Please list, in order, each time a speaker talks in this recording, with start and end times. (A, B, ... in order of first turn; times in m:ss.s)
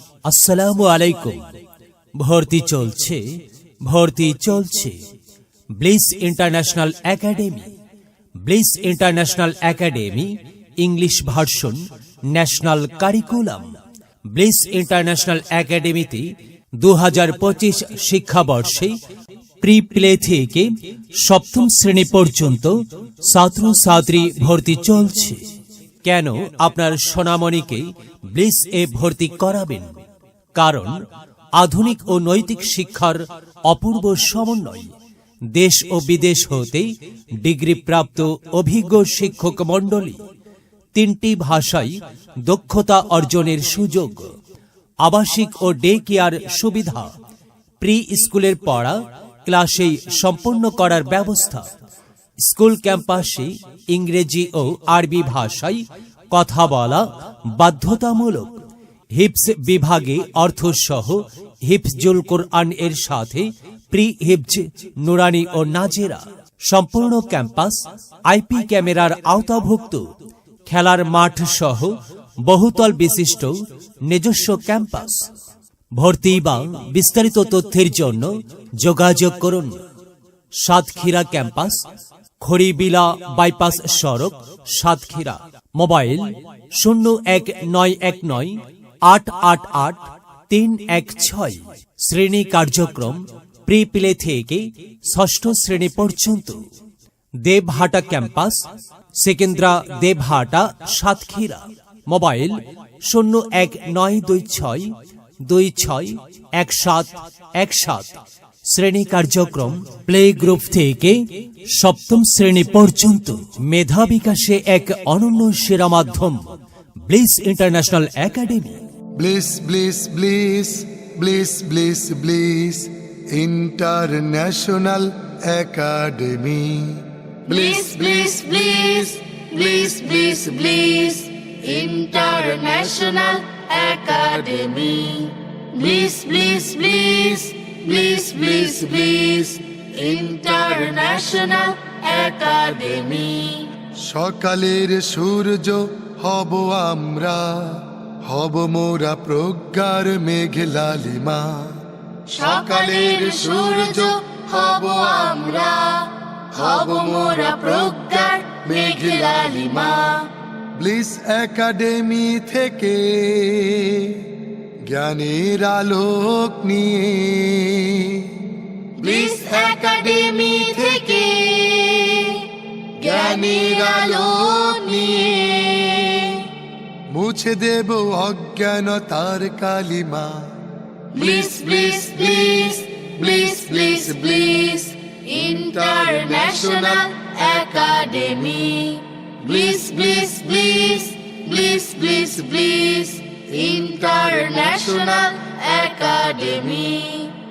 0:00.2-0:01.5 A
0:02.2-0:03.2 A
0:03.8-0:04.9 A
0:05.8-0:07.7 A
0:08.4-0:10.3 A
0:10.8-0:11.8 A
0:12.3-0:13.7 A
0:14.3-0:16.3 A
0:16.8-0:18.9 A
0:19.6-0:20.7 A
0:21.2-0:22.7 A
0:23.3-0:25.4 A
0:26.0-0:29.9 A
0:30.6-0:30.9 A
0:31.6-0:34.9 A
0:35.5-0:36.9 A
0:37.4-0:40.2 A
0:40.9-0:44.3 A
0:45.0-0:47.1 A
0:47.8-0:51.6 A
0:52.4-0:57.0 A
0:57.5-0:58.5 A
0:59.1-1:10.0 A
1:10.6-1:11.9 A
1:12.4-1:13.5 A
1:14.1-1:15.2 A
1:16.0-1:19.8 A
1:20.6-1:21.8 A
1:22.4-1:36.6 A
1:37.4-1:38.6 A
1:39.2-1:44.9 A
1:45.5-1:48.2 A
1:48.7-1:51.2 A
1:51.7-1:56.4 A
1:57.0-1:58.8 A
1:59.2-2:07.0 B
2:07.4-2:23.7 C
2:24.0-2:31.8 B
2:32.3-2:40.3 C
2:40.8-2:44.3 B
2:44.8-2:48.4 B
2:49.0-2:56.5 C
2:57.1-3:00.5 B
3:01.1-3:17.3 C